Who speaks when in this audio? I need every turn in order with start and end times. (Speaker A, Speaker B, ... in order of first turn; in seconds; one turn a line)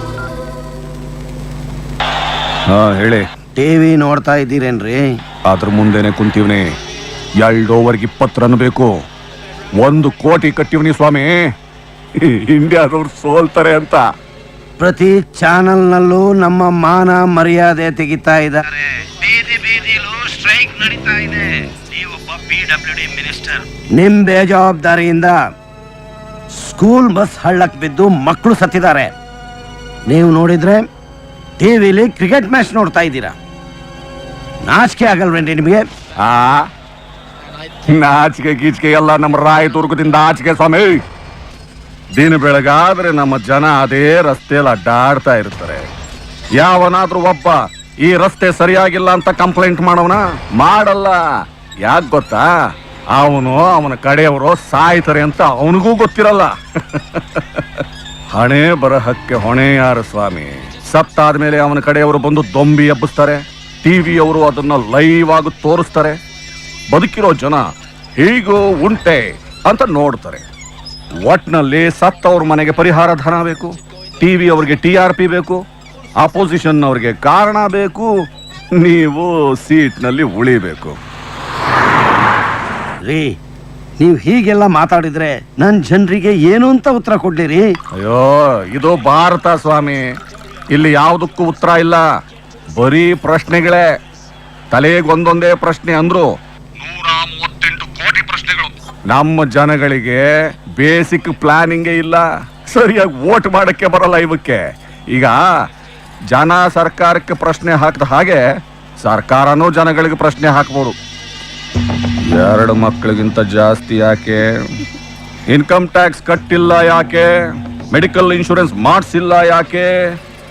Speaker A: 2.7-3.3
Speaker B: 3.5-5.0
Speaker A: 5.5-6.7
Speaker A: 7.4-8.9
Speaker A: 9.8-11.4
Speaker A: 12.2-14.0
Speaker B: 14.8-25.4
Speaker B: 26.6-29.1
Speaker B: 30.1-30.9
Speaker B: 31.6-33.3
Speaker B: 34.7-35.9
Speaker A: 36.2-36.6
Speaker A: 37.9-41.0
Speaker A: 42.2-45.9
Speaker A: 46.6-51.2
Speaker A: 51.9-52.5
Speaker A: 53.2-66.2
Speaker A: 66.9-67.6
Speaker A: 68.2-70.4
Speaker A: 71.3-75.6
Speaker A: 76.2-78.1
Speaker A: 78.8-81.0
Speaker B: 83.1-83.4
Speaker B: 84.0-87.7
Speaker A: 88.0-90.0
Speaker A: 90.7-92.0
Speaker A: 92.8-93.8
Speaker A: 94.7-96.3
Speaker A: 96.8-100.2
Speaker A: 100.8-104.6
Speaker A: 106.3-108.4
Speaker A: 109.0-111.0
Speaker A: 112.3-114.5
Speaker A: 115.5-117.3
Speaker A: 117.9-119.9